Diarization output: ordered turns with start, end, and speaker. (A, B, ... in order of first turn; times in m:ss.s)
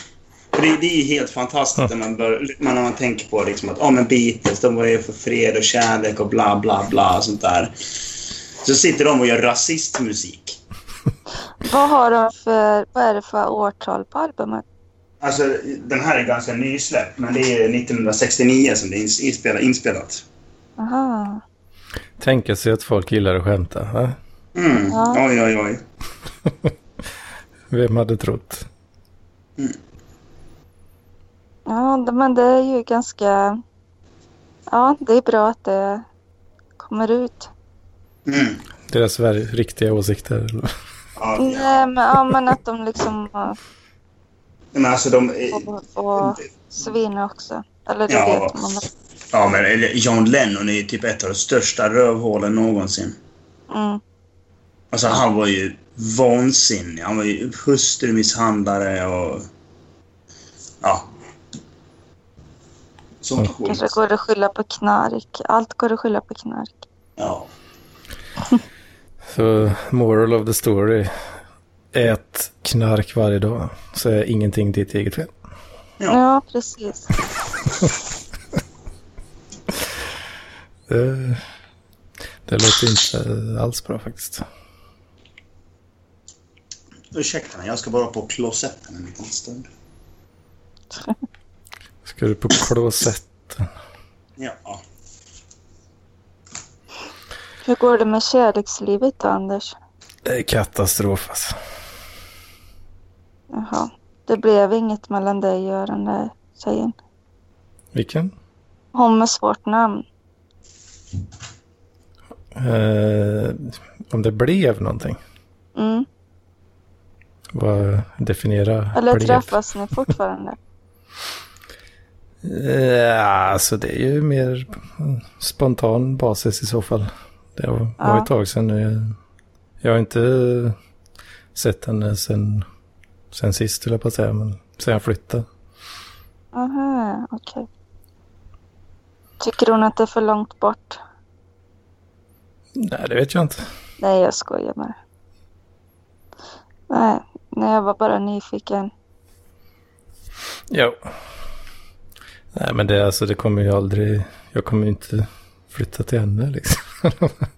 0:00.5-0:10.6 A
0:11.6-0:14.6 B
0:15.2-0:20.2 A
0:20.8-0:21.4 B
0:22.2-0:24.2 C
0:24.6-0:25.8 A
0:24.9-0:25.2 B
0:27.7-0:28.7 C
0:31.7-0:33.6 B
0:34.7-0:36.0 B
0:36.8-0:37.5 B
0:38.3-0:38.6 A
0:38.9-0:40.7 C
0:41.2-0:41.9 A
0:41.4-0:43.6 B
0:44.7-0:46.4 A
0:45.5-0:48.8 B
0:48.1-0:48.6 A
0:49.3-0:53.2 A
0:53.7-0:54.0 B
0:54.9-0:59.5 A
1:00.8-1:01.1 A
1:03.2-1:04.0 A
1:03.7-1:06.8 B
1:07.2-1:07.5 A
1:09.3-1:11.1 C
1:11.9-1:15.3 C
1:16.1-1:17.1 B
1:20.9-1:21.4 C
1:22.5-1:24.4 C
1:27.1-1:29.7 A
1:32.0-1:33.7 C
1:34.4-1:34.8 A
1:37.6-1:39.8 B
1:40.2-1:41.6 C
1:43.5-1:47.0 B
1:47.9-1:48.3 C
1:48.9-1:50.0 B
1:52.5-1:55.2 C
1:55.8-1:56.1 B
1:57.5-1:59.6 C
1:59.0-2:00.6 B
2:02.4-2:09.2 C
2:08.0-2:08.3 B
2:09.8-2:10.8 C
2:11.6-2:12.7 C
2:13.3-2:15.5 C
2:16.5-2:17.7 B
2:19.4-2:21.0 B
2:22.8-2:23.6 C
2:24.0-2:25.0 B
2:26.9-2:28.9 B
2:30.7-2:31.0 C
2:32.5-2:37.4 C